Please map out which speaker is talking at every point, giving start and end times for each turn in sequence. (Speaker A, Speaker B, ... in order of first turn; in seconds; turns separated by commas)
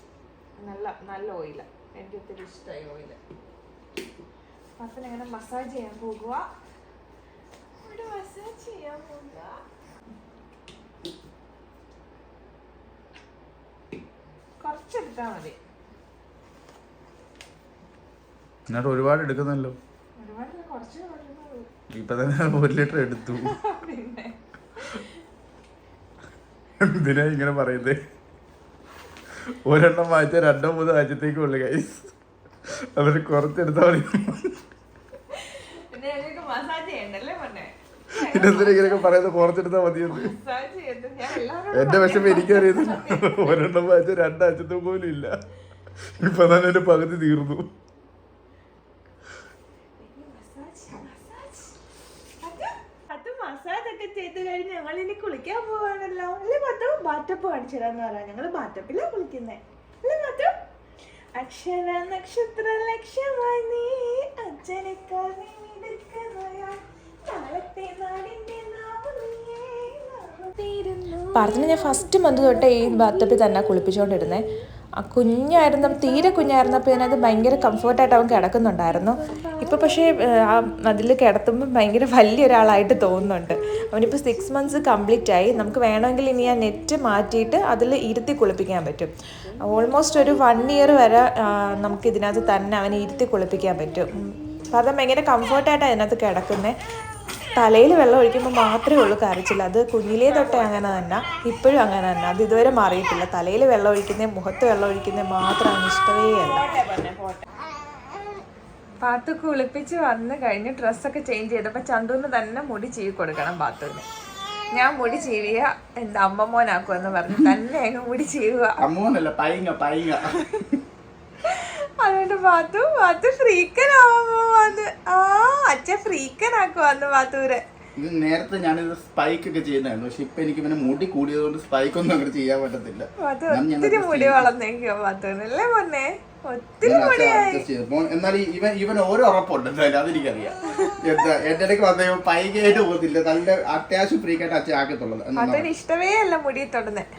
Speaker A: 0.6-3.2, Speaker A: 4.8-6.5, Speaker A: 7.8-9.6, Speaker A: 14.6-15.6, Speaker B: 18.7-19.8, Speaker A: 20.2-21.7, Speaker B: 21.9-23.6, Speaker A: 23.3-24.4, Speaker B: 26.8-28.0, Speaker B: 29.6-32.1, Speaker B: 32.9-34.5, Speaker A: 35.9-39.2, Speaker B: 38.1-40.3, Speaker A: 40.0-43.6, Speaker B: 41.7-45.3, Speaker B: 46.2-47.7, Speaker A: 50.0-51.7, Speaker A: 52.4-60.5, Speaker A: 61.4-73.2, Speaker C: 71.3-74.4, Speaker C: 75.0-89.1, Speaker A: 75.6-80.0, Speaker C: 89.7-96.7, Speaker C: 97.5-106.7, Speaker A: 100.3-101.4, Speaker A: 106.1-107.5, Speaker A: 109.0-114.0, Speaker A: 114.7-118.8, Speaker B: 118.8-120.4, Speaker A: 121.4-127.6, Speaker B: 128.0-134.5, Speaker A: 133.2-137.7, Speaker B: 136.8-145.7, Speaker A: 145.3-147.1